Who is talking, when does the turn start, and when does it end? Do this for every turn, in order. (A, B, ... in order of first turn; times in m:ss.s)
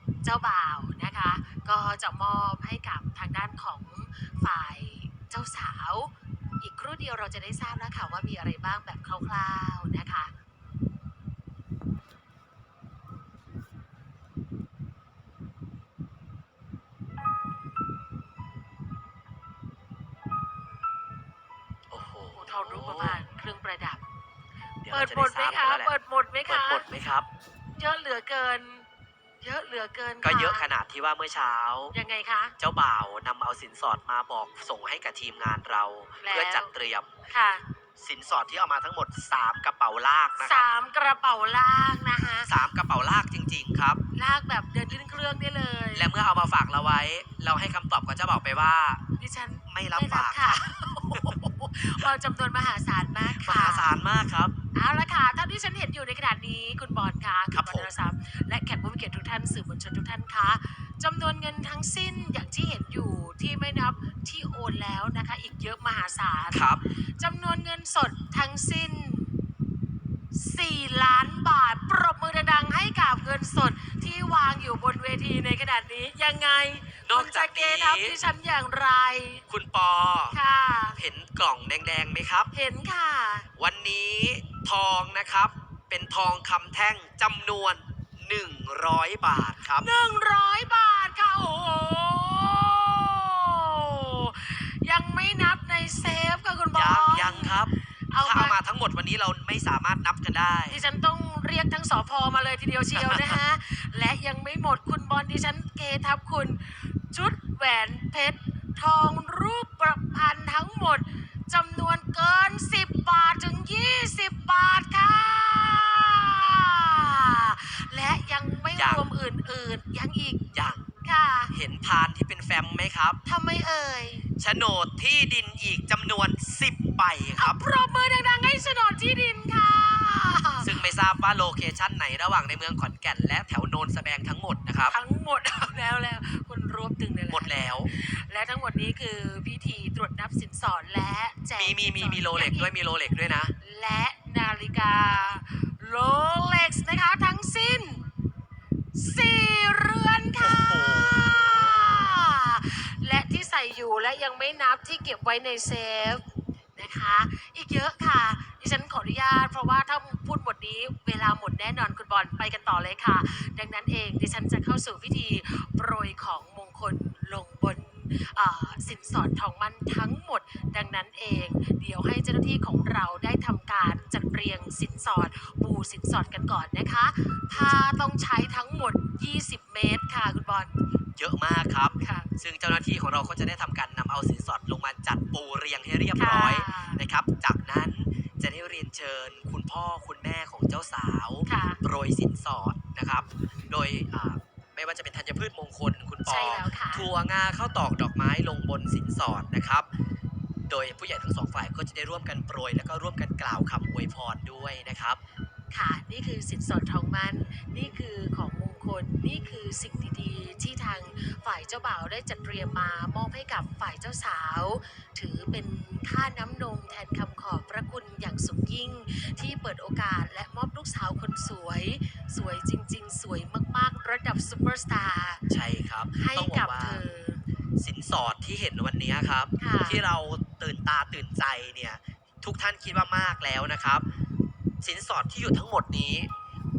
0:00.2-0:10.3 A
0:21.9-0:23.2 B
0:22.3-0:24.0 A
0:24.8-0:25.9 B
0:24.9-0:26.8 A
0:26.5-0:27.3 B
0:27.8-0:28.8 A
0:29.4-0:30.7 A
0:30.2-0:31.9 B
0:31.9-0:32.5 A
0:32.6-0:37.1 B
0:36.2-0:36.7 A
0:37.3-0:37.6 A
0:38.0-0:40.6 B
0:40.4-0:42.5 A
0:42.4-0:44.0 B
0:44.1-0:46.1 A
0:45.9-0:49.0 B
0:49.2-0:53.9 A
0:49.7-0:51.4 B
0:53.3-0:54.5 B
0:54.7-1:09.3 A
0:57.5-0:57.9 B
1:06.5-1:06.8 B
1:10.3-1:19.4 A
1:17.0-1:18.2 B
1:19.5-1:20.4 B
1:20.3-1:21.0 A
1:21.0-1:22.5 B
1:22.5-1:23.5 A
1:23.6-1:29.9 B
1:29.8-1:37.6 A
1:36.7-1:40.8 B
1:38.1-1:38.6 A
1:40.7-2:00.4 A
1:43.0-1:43.4 B
1:58.8-1:59.1 B
2:00.5-2:00.8 B
2:01.0-2:01.5 A
2:01.5-2:03.2 B
2:03.2-2:04.2 A
2:04.4-2:07.6 B
2:07.4-2:10.7 A
2:10.6-2:15.0 B
2:14.9-2:22.7 A
2:17.3-2:17.9 B
2:21.6-2:23.5 B
2:23.6-2:28.0 A
2:28.9-2:36.2 A
2:30.4-2:32.2 B
2:36.8-3:00.7 A
3:01.2-3:19.9 B
3:02.0-3:02.3 A
3:06.2-3:07.0 A
3:11.4-3:11.8 A
3:16.2-3:17.1 A
3:20.7-3:25.2 B
3:25.7-3:45.4 A
3:45.5-3:47.0 B
3:46.1-3:47.4 A
3:47.8-3:54.0 B
3:49.6-3:50.0 A
3:54.8-3:56.3 B